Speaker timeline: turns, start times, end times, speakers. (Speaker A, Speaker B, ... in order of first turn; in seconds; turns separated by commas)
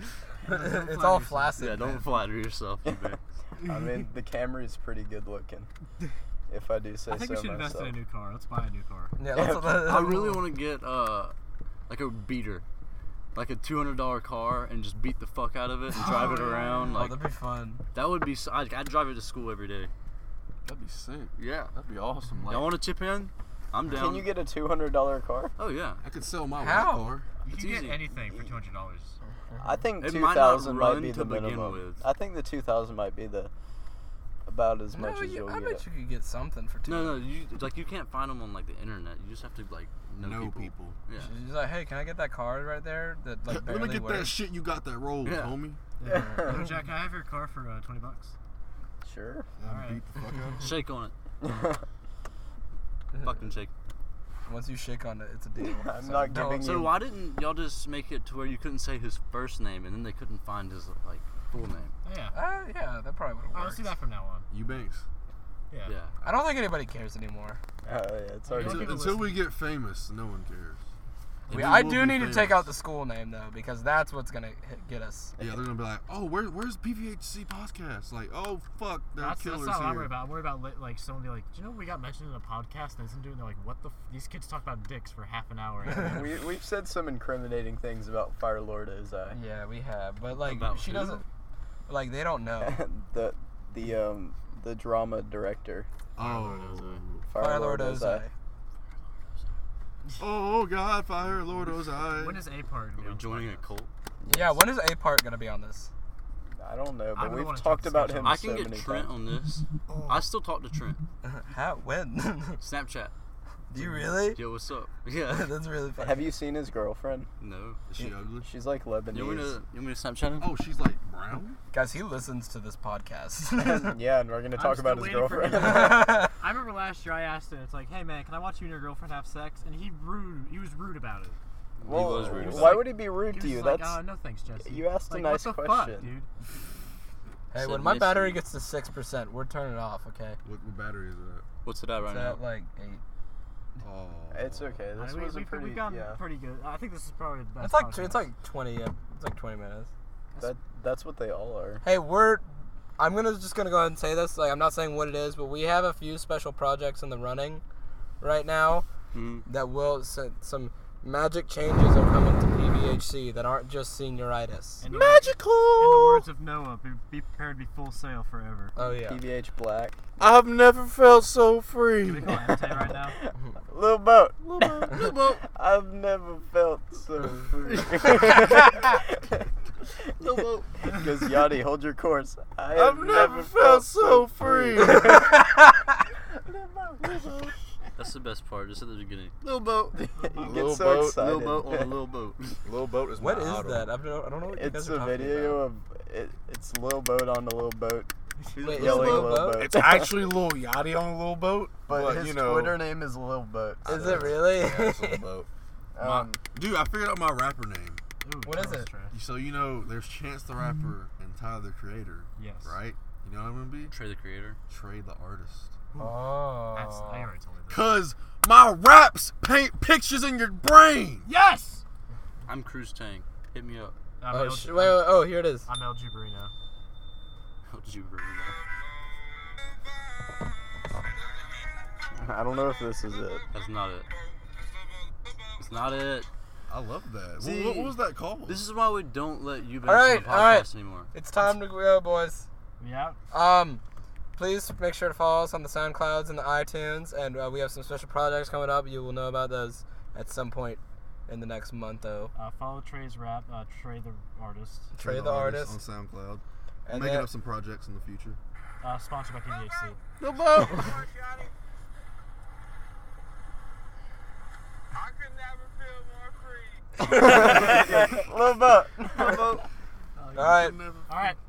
Speaker A: 0.4-1.6, Speaker B: 0.5-2.1, Speaker C: 1.6-3.2, Speaker D: 2.9-5.7, Speaker D: 6.5-8.0, Speaker A: 7.1-9.2, Speaker B: 9.2-10.4, Speaker D: 9.3-10.0, Speaker C: 9.8-11.3, Speaker C: 11.9-12.7, Speaker C: 13.3-17.2, Speaker A: 16.0-17.0, Speaker B: 16.3-17.8, Speaker C: 17.9-19.9, Speaker E: 20.6-22.8, Speaker C: 21.4-21.7, Speaker C: 22.5-24.3, Speaker D: 23.9-25.5, Speaker C: 25.6-26.0, Speaker E: 26.0-27.3, Speaker B: 26.6-27.2, Speaker A: 27.4-29.2, Speaker C: 27.5-28.1, Speaker D: 29.6-33.5, Speaker C: 30.0-32.0, Speaker D: 34.5-35.8, Speaker B: 34.9-37.2, Speaker C: 36.9-41.3, Speaker E: 40.2-41.0, Speaker B: 41.2-44.4, Speaker E: 43.5-45.8, Speaker C: 45.2-45.5, Speaker A: 46.0-48.3, Speaker D: 46.1-46.6, Speaker D: 49.0-49.5, Speaker E: 49.6-50.8, Speaker A: 49.6-50.0, Speaker C: 50.6-51.1, Speaker D: 51.4-51.8, Speaker C: 53.2-53.7, Speaker B: 54.5-56.9, Speaker D: 55.6-57.0, Speaker C: 56.6-62.0, Speaker A: 62.0-62.4, Speaker B: 62.3-63.9, Speaker A: 63.5-64.5, Speaker E: 64.5-65.0, Speaker C: 65.9-66.1, Speaker B: 66.2-67.6, Speaker D: 67.8-69.2, Speaker A: 68.5-69.4, Speaker E: 68.5-70.8, Speaker E: 71.5-72.7, Speaker B: 71.5-75.4, Speaker D: 75.4-75.7, Speaker E: 75.4-80.2, Speaker A: 79.2-86.3, Speaker D: 86.0-89.4, Speaker B: 89.3-91.2, Speaker C: 90.3-91.2, Speaker B: 91.9-92.8, Speaker D: 92.6-95.9, Speaker E: 96.2-97.3, Speaker C: 96.2-97.0, Speaker D: 97.3-98.3, Speaker B: 97.4-98.3, Speaker E: 100.2-102.4, Speaker A: 101.5-103.7, Speaker C: 103.0-103.9, Speaker D: 104.2-104.6, Speaker B: 104.3-105.9, Speaker D: 106.5-109.1, Speaker A: 107.2-108.5, Speaker C: 108.2-111.0, Speaker A: 109.9-110.3, Speaker B: 111.2-112.6, Speaker C: 112.6-113.1, Speaker B: 113.7-114.4, Speaker C: 114.0-115.5, Speaker B: 115.2-116.3, Speaker D: 116.0-117.3, Speaker C: 117.4-117.8, Speaker E: 117.9-118.5, Speaker D: 118.4-119.6, Speaker C: 119.1-120.6, Speaker E: 120.4-121.6, Speaker B: 121.7-124.0, Speaker D: 123.5-126.3, Speaker A: 124.5-131.4, Speaker B: 125.5-126.3, Speaker C: 131.8-132.9, Speaker D: 131.8-134.0, Speaker A: 132.6-136.3, Speaker D: 134.6-136.2, Speaker B: 137.5-140.4, Speaker C: 137.6-138.4, Speaker E: 140.4-141.4, Speaker C: 141.7-142.4, Speaker B: 142.0-143.0, Speaker E: 143.8-144.8, Speaker D: 144.3-146.2, Speaker A: 145.0-148.3, Speaker B: 147.6-149.9, Speaker D: 150.4-151.8, Speaker B: 151.8-157.6, Speaker B: 158.2-158.9, Speaker C: 159.1-159.5, Speaker B: 159.5-164.9, Speaker A: 164.8-168.8, Speaker E: 164.9-166.2, Speaker B: 168.8-169.2, Speaker D: 168.8-170.0, Speaker E: 170.2-172.4, Speaker A: 172.0-173.2, Speaker D: 172.3-185.5, Speaker C: 174.8-175.4, Speaker C: 177.8-178.3, Speaker C: 180.2-181.0, Speaker E: 182.7-185.2, Speaker B: 185.0-185.5, Speaker D: 186.4-187.5, Speaker C: 188.0-192.6, Speaker D: 189.9-191.9, Speaker E: 190.4-191.3, Speaker E: 192.7-193.9, Speaker B: 193.2-195.7, Speaker D: 194.5-198.1, Speaker C: 198.5-199.4, Speaker B: 198.6-199.7, Speaker D: 198.7-200.2, Speaker E: 198.8-202.8, Speaker D: 201.9-204.4, Speaker E: 203.8-205.5, Speaker B: 203.9-205.3, Speaker D: 205.9-206.4, Speaker E: 206.0-208.0, Speaker A: 208.2-209.2, Speaker B: 208.4-208.9, Speaker E: 209.1-214.0, Speaker A: 212.4-212.8, Speaker C: 213.9-214.6, Speaker E: 214.7-215.7, Speaker B: 216.0-217.3, Speaker A: 216.7-217.9, Speaker E: 217.7-221.3, Speaker A: 221.2-221.8, Speaker C: 222.5-224.0, Speaker A: 224.2-226.5, Speaker B: 224.3-225.7, Speaker C: 227.7-228.6, Speaker D: 232.2-233.4, Speaker C: 233.5-234.1, Speaker C: 235.6-236.3, Speaker E: 236.7-238.6, Speaker C: 237.4-241.1, Speaker B: 239.9-242.5, Speaker A: 242.8-243.2, Speaker B: 243.3-243.8, Speaker B: 244.4-252.3, Speaker A: 252.3-254.9, Speaker B: 254.9-255.8, Speaker E: 255.0-258.4, Speaker B: 256.9-257.3, Speaker A: 258.8-260.0, Speaker E: 260.2-260.9, Speaker C: 260.2-261.0, Speaker D: 267.0-269.5, Speaker B: 267.1-267.8, Speaker C: 269.1-269.6, Speaker A: 270.2-271.4, Speaker B: 270.4-270.8, Speaker E: 270.5-271.1